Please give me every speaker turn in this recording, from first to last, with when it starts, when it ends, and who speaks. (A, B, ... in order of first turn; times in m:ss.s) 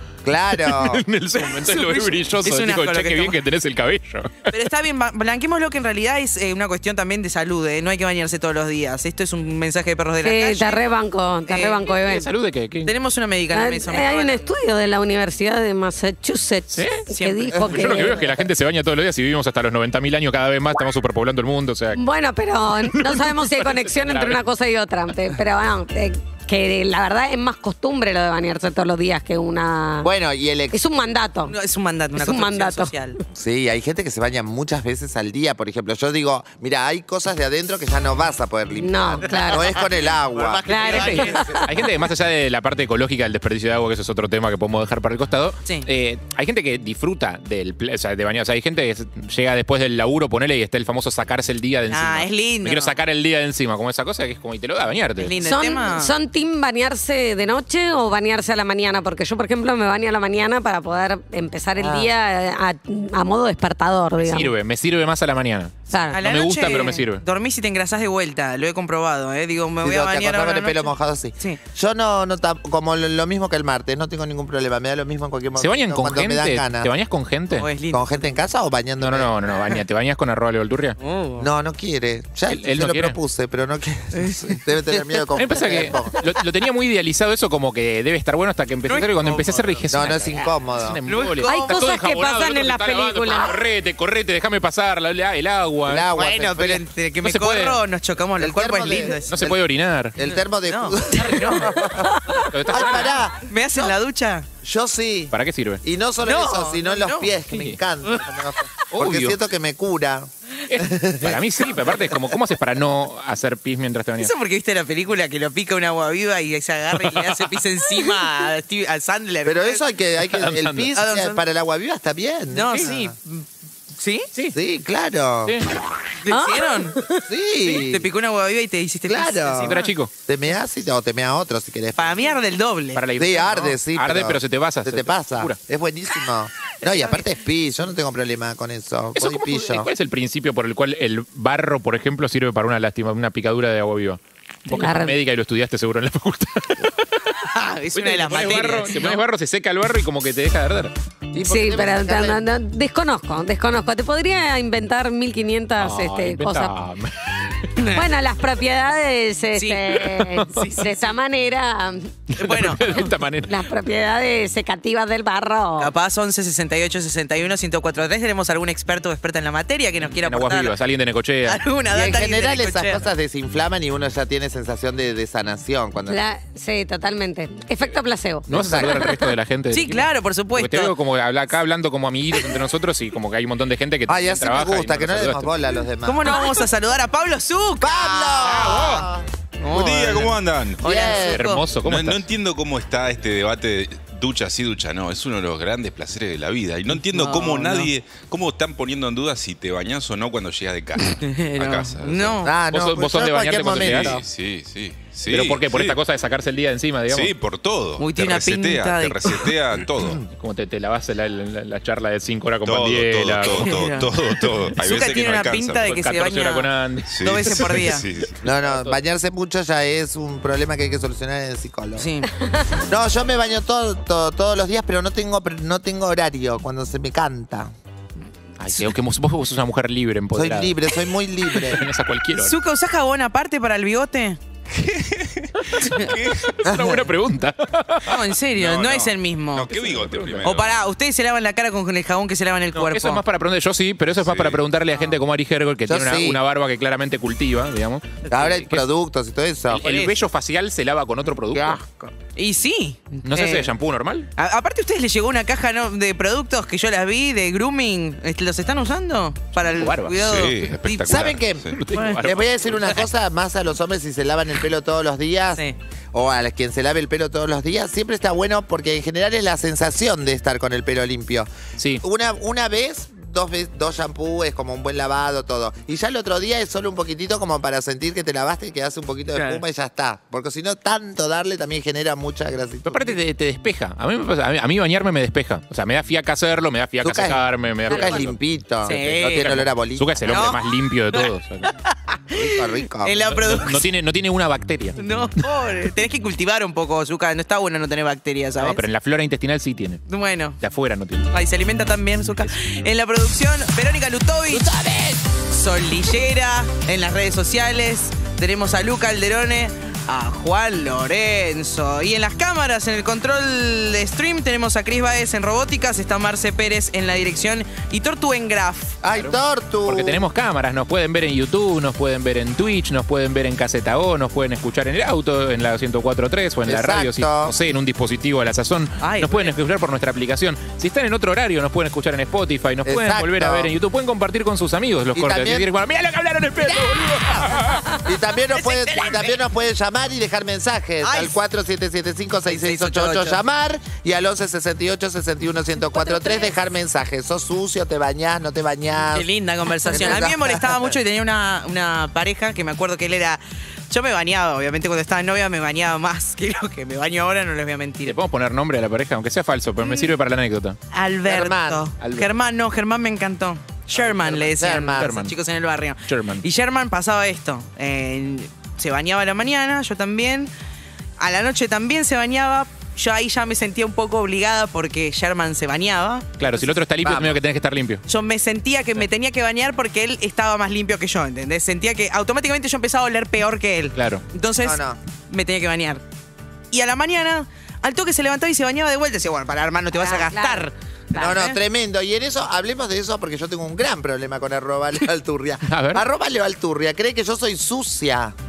0:00.2-0:01.0 A
0:00.6-0:04.5 B
0:01.4-0:03.4 C
0:04.5-0:10.8 C
0:10.2-0:12.3 D
0:11.5-0:11.8 C
0:12.0-0:12.9 B
0:12.9-0:14.5 C
0:13.5-0:18.3 D
0:16.7-0:17.0 B
0:17.1-0:18.1 C
0:17.7-0:22.0 B
0:21.9-0:30.1 D
0:22.8-0:24.4 B
0:30.0-0:30.8 A
0:30.7-0:31.5 D
0:31.5-0:33.2 C
0:32.2-0:32.9 D
0:33.3-0:41.7 A
0:38.8-0:39.8 D
0:39.2-0:41.5 C
0:40.7-0:41.6 D
0:40.9-0:55.4 B
0:51.9-0:53.0 C
0:55.2-0:56.1 C
0:55.4-1:04.5 D
1:01.8-1:02.1 A
1:04.2-1:07.2 B
1:05.9-1:06.2 D
1:06.1-1:11.6 C
1:09.8-1:16.9 A
1:15.6-1:17.7 B
1:17.5-1:18.3 C
1:17.9-1:19.4 A
1:19.0-1:21.0 B
1:21.0-1:21.5 C
1:21.4-1:26.2 A
1:22.5-1:23.2 B
1:24.2-1:25.3 C
1:25.4-1:36.1 B
1:28.9-1:30.5 C
1:29.9-1:31.0 A
1:31.1-1:32.1 C
1:31.4-1:33.6 D
1:35.9-1:36.8 A
1:36.1-1:39.5 C
1:37.2-1:37.8 B
1:38.4-1:39.6 A
1:39.3-1:40.2 B
1:40.2-1:42.1 A
1:40.2-1:41.7 C
1:42.4-1:44.5 C
1:42.5-1:43.2 B
1:42.7-1:44.0 A
1:44.6-1:51.4 A
1:45.3-1:45.8 B
1:46.2-1:47.4 C
1:48.9-1:49.4 B
1:50.7-1:54.3 B
1:54.2-1:59.8 C
1:57.0-1:57.3 B
1:59.4-2:03.2 A
2:00.4-2:01.0 B
2:01.0-2:01.4 C
2:02.5-2:03.4 C
2:04.0-2:04.2 C
2:04.5-2:05.6 A
2:06.2-2:07.0 C
2:06.3-2:07.0 D
2:07.3-2:08.1 A
2:07.6-2:09.9 C
2:09.1-2:12.3 A
2:09.6-2:10.1 B
2:12.0-2:13.0 C
2:13.0-2:15.6 B
2:13.2-2:19.9 A
2:16.8-2:17.2 C
2:19.2-2:26.9 B
2:24.7-2:25.2 D
2:27.4-2:29.2 C
2:28.0-2:30.9 B
2:31.3-2:32.4 A
2:31.4-2:36.8 D
2:35.8-2:37.4 B
2:37.8-2:38.0 C
2:37.9-2:42.1 D
2:39.6-2:41.2 C
2:42.3-2:43.1 C
2:42.4-2:43.5 B
2:43.5-2:45.9 D
2:45.8-2:50.8 C
2:50.2-2:51.6 B
2:51.5-2:53.1 C
2:51.9-2:56.2 A
2:56.1-2:59.2 D
2:58.5-3:05.5 B
2:58.6-2:59.0 A
2:59.7-3:01.0 C
3:04.1-3:06.3 A
3:06.0-3:09.1 C
3:07.8-3:09.3 A
3:08.4-3:09.1 B
3:09.6-3:11.6 C
3:09.7-3:22.5 E
3:10.8-3:11.4 A
3:11.3-3:12.3 B
3:17.1-3:17.9 C
3:21.2-3:22.5 C
3:22.4-3:24.2 A
3:22.7-3:24.2 B
3:23.8-3:26.0 E
3:25.3-3:27.3 B
3:27.1-3:30.3 E
3:28.0-3:29.6 C
3:30.3-3:33.7 B
3:32.6-3:36.0 E
3:33.5-3:34.1 C
3:34.8-3:38.1 C
3:35.9-3:37.7 B
3:37.1-3:38.5 E
3:38.4-3:42.1 A
3:38.6-3:39.0 B
3:42.0-3:42.3 C
3:42.9-3:47.7 A
3:48.6-3:50.8 B
3:48.7-3:48.9 C
3:50.3-3:51.8 A
3:51.6-3:52.6 B
3:52.3-3:54.4 C
3:54.8-3:56.6 E
3:56.6-3:58.2 B
3:56.6-3:57.0 A
3:58.1-3:59.8 C
3:58.6-4:00.9 E
3:59.7-4:00.5 B
4:00.4-4:03.2 C
4:02.8-4:08.8 B
4:04.1-4:04.6 E
4:05.9-4:06.4 A
4:08.3-4:09.8 A
4:09.7-4:11.8 B
4:09.8-4:10.1 C
4:11.5-4:12.1 A
4:12.4-4:13.7 C
4:13.2-4:14.3 B
4:14.4-4:21.3 C
4:19.7-4:20.2 B
4:20.2-4:21.8 E
4:21.1-4:31.5 A
4:21.8-4:23.0 B
4:21.9-4:22.2 C
4:32.0-4:43.2 A
4:39.4-4:39.6 C
4:42.9-4:51.7 B
4:47.0-4:50.5 A
4:47.9-4:48.3 D
4:48.8-4:49.6 C
4:50.3-4:53.9 C
4:52.3-4:53.2 A
4:53.3-4:55.0 B
4:55.0-4:58.8 C
4:58.6-5:00.0 B
5:00.1-5:00.6 C
5:00.6-5:01.3 B
5:01.3-5:04.7 C
5:04.5-5:04.9 B
5:05.4-5:19.0 C
5:19.0-5:20.2 A
5:19.1-5:38.0 B
5:26.7-5:27.5 A
5:29.0-5:29.5 C
5:32.8-5:33.7 A
5:35.1-5:35.7 A
5:38.0-5:49.3 A
5:38.6-5:39.4 C
5:41.0-5:41.4 C
5:42.5-5:43.4 C
5:45.8-5:46.5 D
5:49.0-5:58.2 C
5:49.9-5:50.9 A
5:58.0-6:00.8 B
5:59.8-6:00.1 C
6:00.9-6:10.5 C
6:01.3-6:01.8 A
6:02.0-6:02.3 B
6:04.0-6:05.3 B
6:04.4-6:05.1 A
6:06.1-6:06.4 B
6:11.2-6:16.3 C
6:16.4-6:18.0 B
6:17.0-6:17.4 A
6:18.1-6:26.0 C
6:24.0-6:24.2 B
6:24.6-6:25.0 A
6:26.7-6:31.6 C
6:29.9-6:31.5 D
6:31.2-6:38.4 A
6:35.7-6:36.0 B